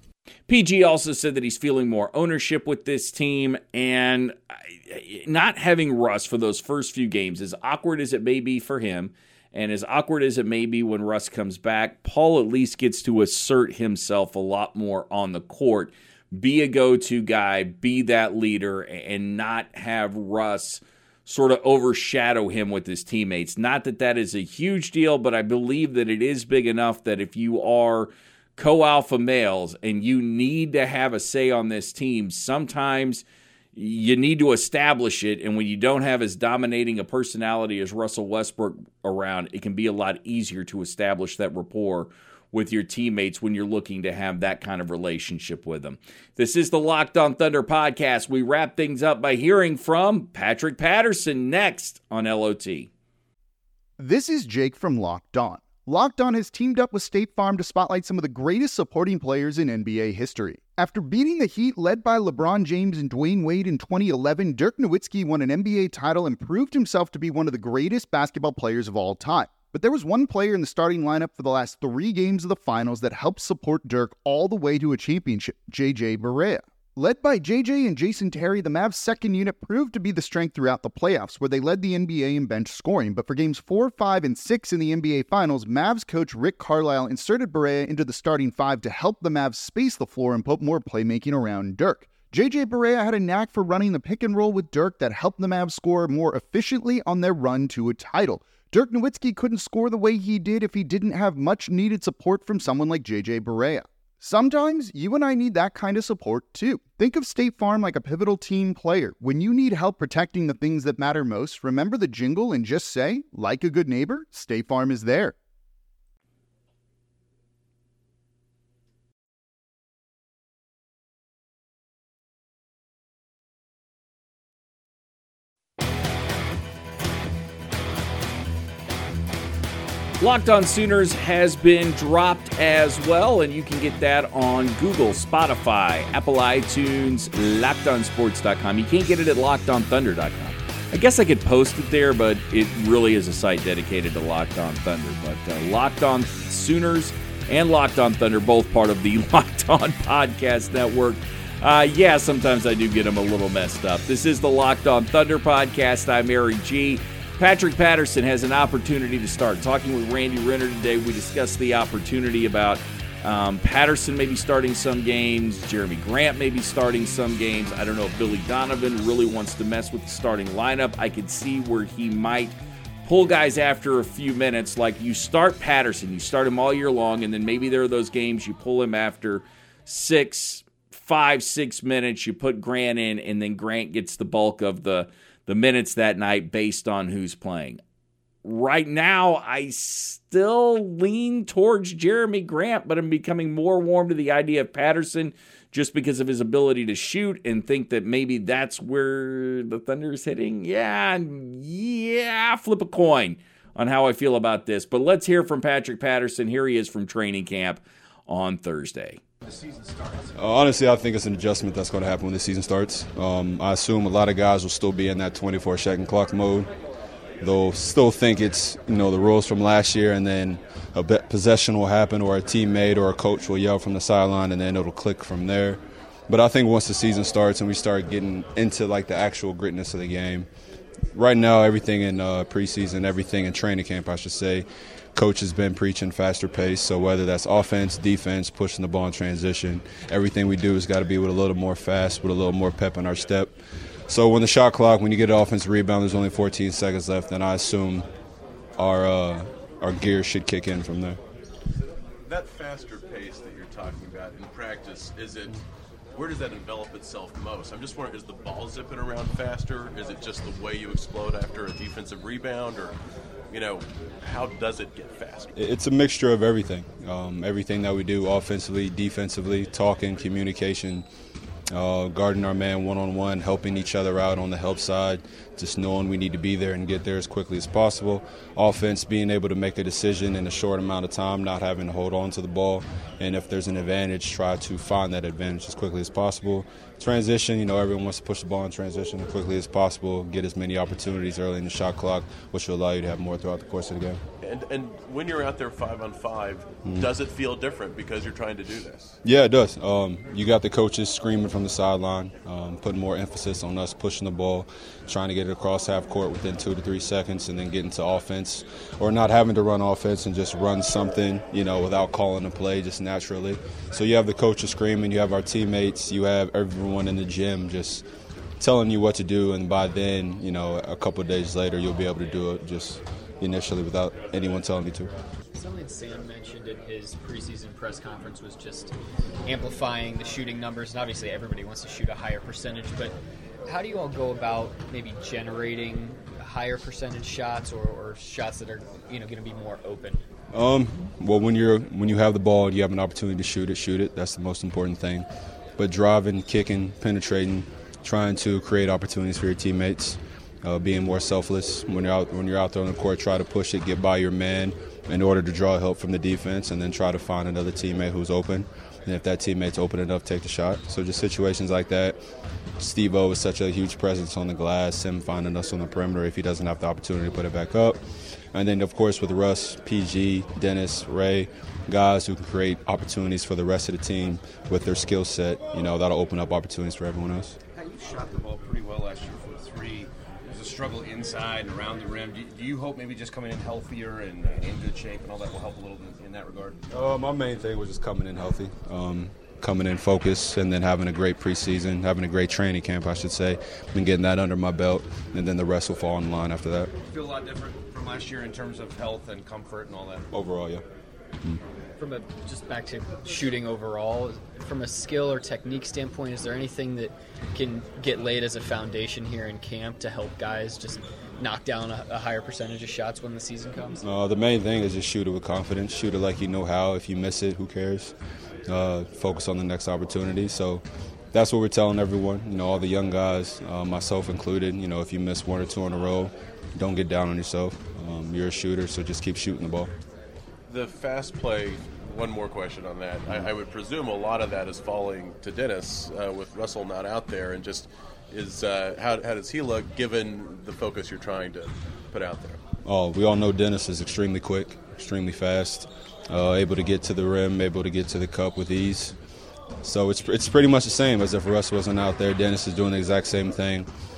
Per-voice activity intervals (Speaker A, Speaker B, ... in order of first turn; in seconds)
Speaker A: 0.5-33.2, 33.7-52.9, 130.2-187.8, 188.4-209.2
Speaker B: 54.0-115.3
Speaker C: 209.5-210.3, 377.7-386.8, 397.1-400.2
Speaker D: 210.3-216.7, 217.4-230.5, 231.1-243.6, 244.1-248.1, 248.8-251.2, 265.6-271.1, 271.7-294.2, 299.2-318.0, 318.6-325.1, 340.5-345.2, 345.8-362.2, 362.8-368.0, 368.5-377.6, 386.9-396.9, 400.3-400.8, 414.0-418.1, 418.7-429.9, 442.8-449.1, 449.8-453.9
Speaker E: 252.2-263.0, 263.5-265.5, 294.4-299.2, 430.7-442.6
Speaker F: 325.5-328.9, 329.4-340.2, 402.0-414.0